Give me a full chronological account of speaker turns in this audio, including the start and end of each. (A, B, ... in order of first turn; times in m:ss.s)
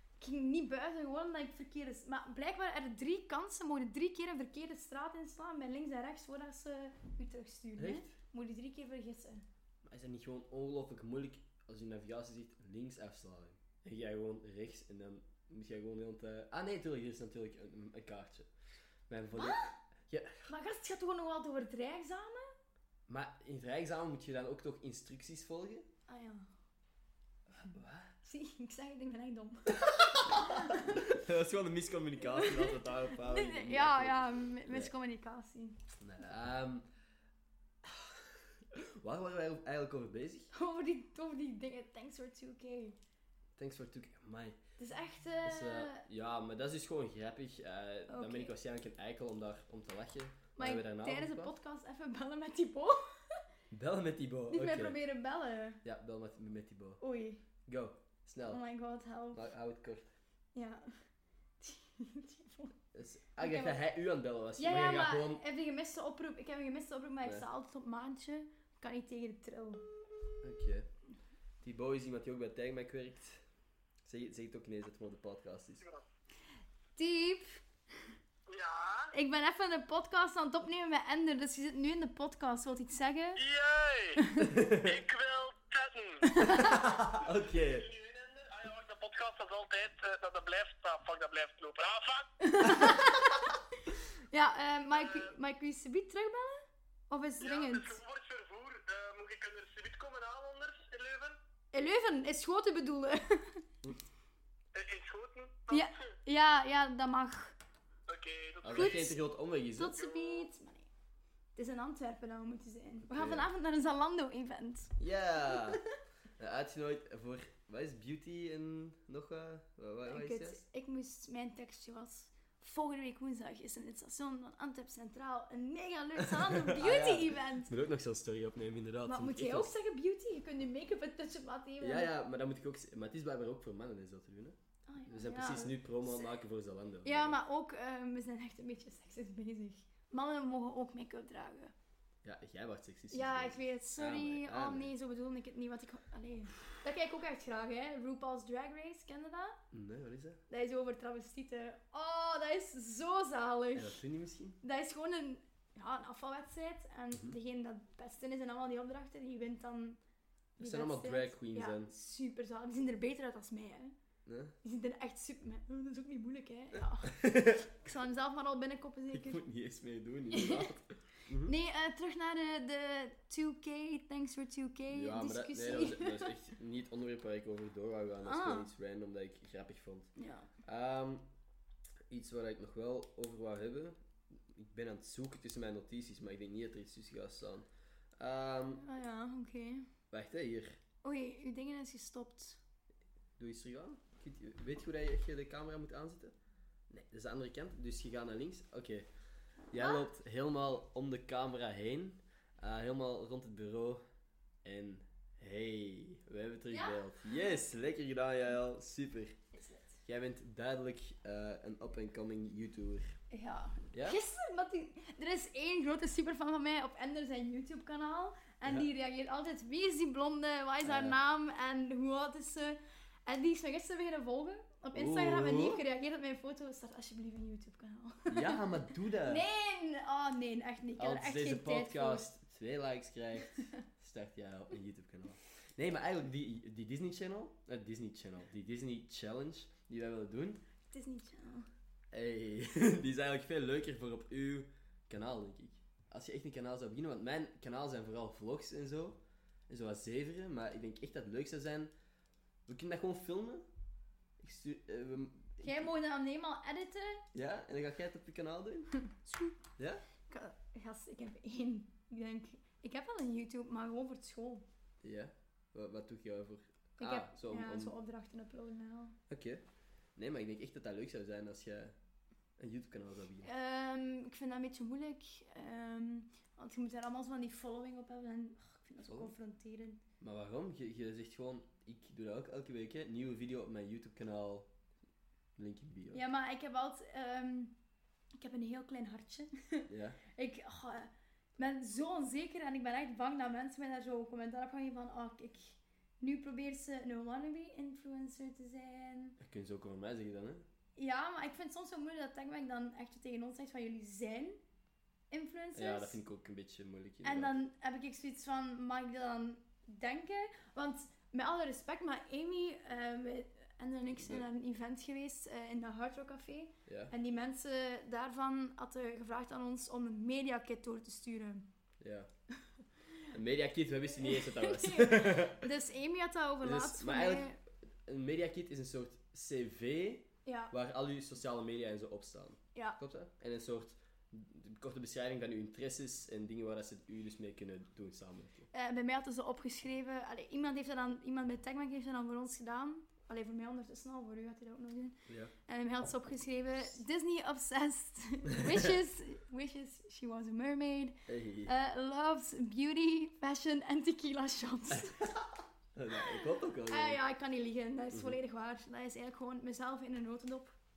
0:00.2-0:09.4 A
0:07.8-0:08.2 B
0:09.8-0:18.5 B
0:19.1-0:20.5 B
0:19.3-0:19.7 A
0:20.5-0:22.5 A
0:23.1-0:25.9 B
0:26.1-0:26.5 A
0:27.5-0:28.1 B
0:28.2-0:31.0 A
0:29.7-0:34.9 B
0:32.2-0:35.8 A
0:36.0-0:36.9 B
0:37.8-0:40.5 B
0:40.5-0:43.0 A
0:43.6-0:44.6 B
0:44.8-0:46.0 A
0:45.4-0:51.5 B
0:48.1-0:48.5 A
0:50.6-0:53.4 A
0:53.7-0:55.0 B
0:54.5-0:55.8 A
0:55.8-0:57.0 B
0:57.0-0:57.4 A
0:57.7-0:58.6 B
0:58.4-0:59.4 A
0:59.3-1:00.1 B
1:00.5-1:01.0 A
1:01.6-1:02.8 A
1:02.9-1:05.4 B
1:03.4-1:03.8 A
1:04.6-1:09.8 A
1:10.4-1:10.9 B
1:11.6-1:13.4 B
1:14.0-1:15.8 B
1:17.0-1:17.6 A
1:18.5-1:19.1 C
1:19.1-1:23.4 A
1:23.4-1:32.3 C
1:24.2-1:24.6 A
1:24.4-1:25.0 B
1:26.2-1:26.8 A
1:26.4-1:27.9 B
1:32.4-1:33.4 A
1:34.3-1:38.0 A
1:34.9-1:35.3 C
1:37.4-1:41.4 C
1:41.7-1:43.6 A
1:44.7-1:46.1 C
1:45.7-1:47.6 A
1:48.1-1:49.1 C
1:48.6-1:50.0 B
1:48.7-1:49.2 A
1:49.7-1:50.9 A
1:50.0-1:50.5 C
1:51.6-1:55.0 A
1:53.0-1:53.5 B
1:55.0-1:55.8 B
1:55.5-1:55.8 A
1:56.4-2:00.6 B
2:00.0-2:07.7 A
2:06.2-2:09.7 B
2:09.0-2:12.1 A
2:11.8-2:17.4 B
2:14.9-2:16.3 A
2:17.0-2:21.7 A
2:22.2-2:24.9 B
2:23.1-2:29.6 A
2:29.7-2:30.4 B
2:30.5-2:34.0 A
2:33.7-2:34.6 B
2:34.6-2:40.0 A
2:40.6-2:43.9 A
2:40.6-2:41.9 B
2:44.2-2:44.5 B
2:44.6-2:49.4 A
2:47.0-2:47.7 B
2:49.1-2:51.5 B
2:50.3-2:50.7 A
2:51.4-2:56.3 A
2:54.9-3:01.2 B
2:58.2-2:58.7 A
3:00.2-3:00.5 A
3:02.1-3:08.8 B
3:08.8-3:09.9 A
3:10.1-3:10.8 B
3:11.0-3:12.6 A
3:13.4-3:16.3 B
3:16.9-3:19.0 B
3:19.7-3:24.0 B
3:19.8-3:20.0 A
3:24.6-3:29.4 B
3:26.7-3:27.6 A
3:29.5-3:30.0 A
3:30.0-3:33.2 B
3:33.3-3:52.3 A
3:33.9-3:34.2 B
3:40.8-3:41.2 B
3:44.9-3:45.8 B
3:48.3-3:49.4 B
3:51.0-4:00.6 B
4:00.9-4:01.7 A
4:02.1-4:11.9 B
4:12.6-4:13.6 B
4:14.4-4:15.9 B
4:15.6-4:17.3 A
4:17.3-4:18.9 B
4:19.1-4:19.6 A
4:19.8-4:20.0 B
4:20.3-4:24.6 A
4:25.0-4:27.9 B
4:27.0-4:29.2 A
4:29.3-4:29.6 B
4:30.2-4:31.9 B
4:32.6-4:33.5 B
4:33.4-4:40.0 A
4:39.0-4:39.3 B
4:40.2-4:44.7 B
4:45.6-4:46.2 B
4:46.1-4:47.8 A
4:48.4-4:59.4 A
4:49.9-4:50.2 B
4:59.4-5:00.6 B
5:01.0-5:04.6 A
5:05.3-5:06.2 A
5:05.7-5:07.6 B
5:07.2-5:21.7 A
5:14.1-5:14.4 B
5:16.9-5:17.1 B
5:22.0-5:22.3 B
5:23.3-5:25.7 B
5:24.1-5:27.6 A
5:26.6-5:38.7 B
5:30.4-5:30.7 A
5:38.7-5:55.2 A
5:45.3-5:45.5 B
5:48.5-5:48.8 B
5:51.3-5:51.7 B
5:54.9-5:57.2 B
5:56.1-6:00.8 A